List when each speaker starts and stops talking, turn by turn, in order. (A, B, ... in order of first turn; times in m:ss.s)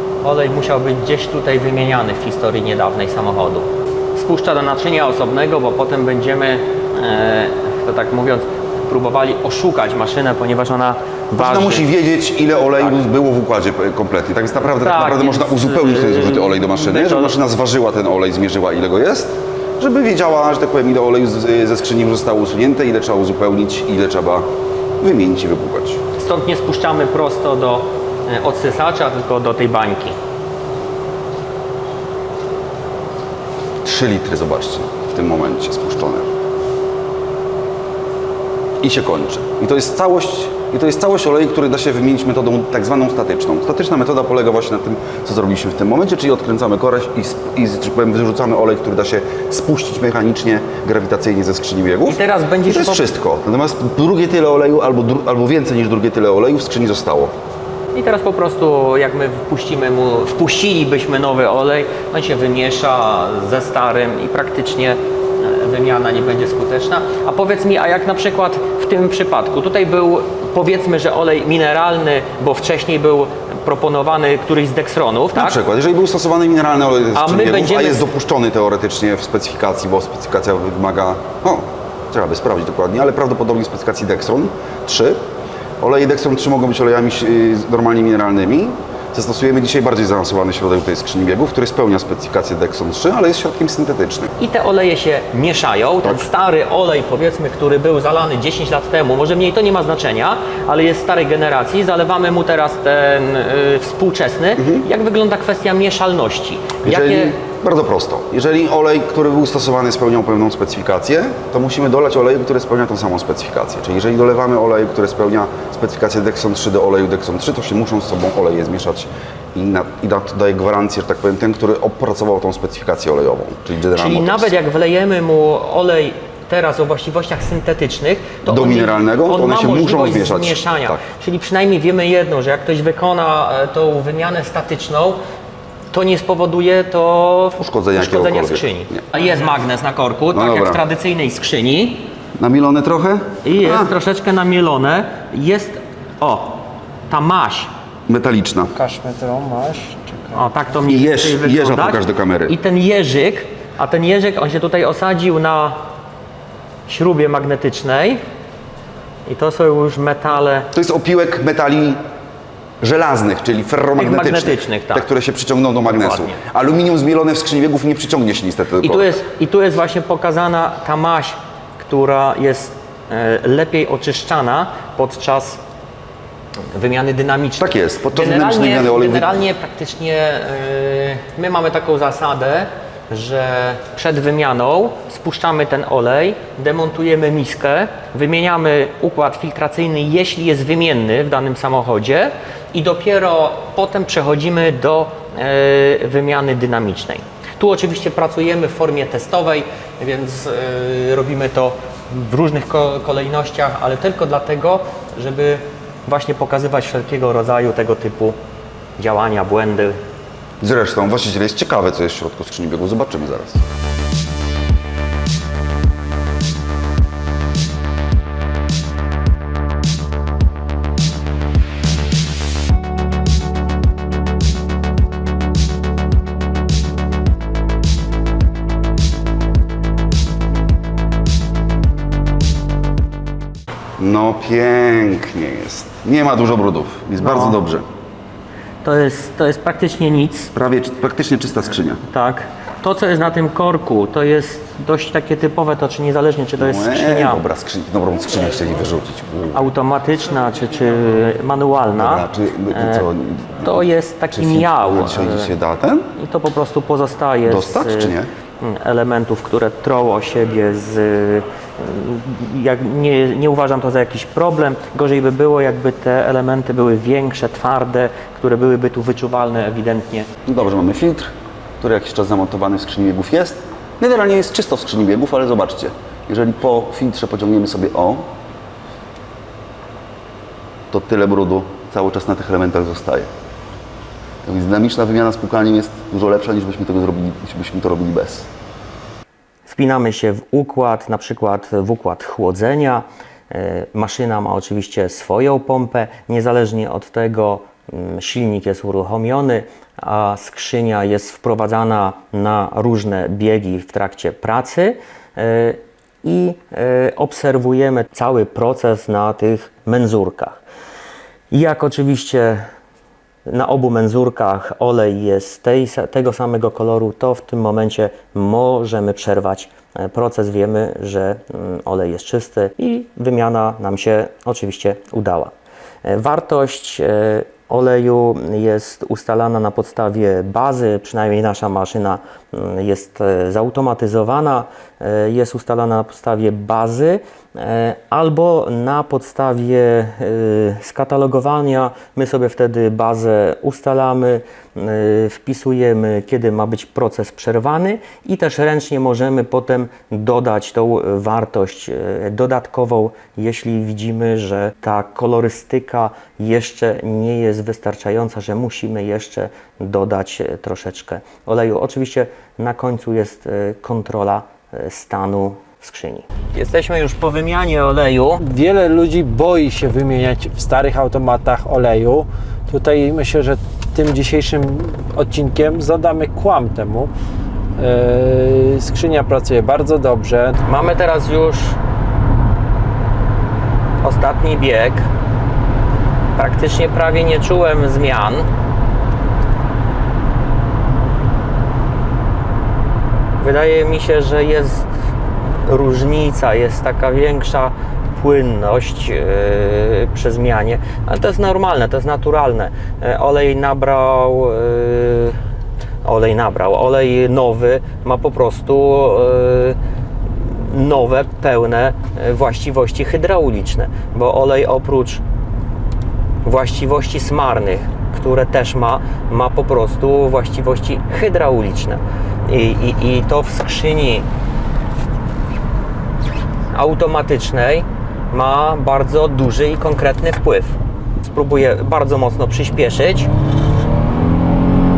0:00.2-0:11.8 A
0:11.4-0:24.4 B
0:14.8-0:17.4 A
0:25.0-0:26.0 B
0:26.2-0:30.2 A
0:33.8-0:36.3 B
0:38.8-0:57.3 B
0:52.1-0:53.0 A
0:57.9-1:15.6 A
1:15.3-1:25.2 B
1:17.1-1:18.0 A
1:25.8-1:34.3 B
1:34.4-1:47.3 A
1:44.6-1:44.8 B
1:46.8-2:04.5 B
2:04.0-2:15.2 A
2:08.4-2:11.0 B
2:15.9-2:22.1 A
2:17.6-2:19.0 B
2:20.3-2:20.8 B
2:22.4-2:23.9 B
2:23.4-2:27.7 A
2:28.1-2:28.7 B
2:28.8-2:30.6 C
2:30.3-2:35.8 A
2:30.8-2:32.6 B
2:36.9-2:38.2 A
2:39.2-2:40.7 A
2:40.8-2:42.0 B
2:42.8-2:49.2 B
2:44.0-2:45.1 A
2:45.9-2:46.4 A
2:48.8-2:55.6 A
2:56.7-3:28.4 A
2:57.6-2:59.4 B
3:29.0-3:30.0 A
3:30.6-3:33.6 B
3:54.0-3:57.8 B
3:57.2-3:57.6 A
3:58.8-4:00.5 A
4:00.5-4:02.0 B
4:02.1-4:07.4 A
4:06.6-4:09.6 B
4:09.5-4:13.0 A
4:12.0-4:16.1 B
4:13.6-4:15.5 A
4:16.2-4:30.3 A
4:17.5-4:18.3 B
4:30.5-4:38.3 B
4:40.9-4:43.3 B
4:44.4-4:48.5 B
4:49.6-5:10.6 A
5:11.5-5:12.6 A
5:13.5-5:25.5 A
5:26.0-6:08.4 A
6:08.4-6:17.1 C
6:17.8-6:20.6 C
6:20.6-6:21.8 A
6:24.0-6:25.1 A
6:26.4-6:28.5 A
6:33.4-6:34.9 A
6:35.6-6:45.4 A
6:46.0-6:55.2 A
6:56.4-7:04.2 A
7:06.7-7:13.3 A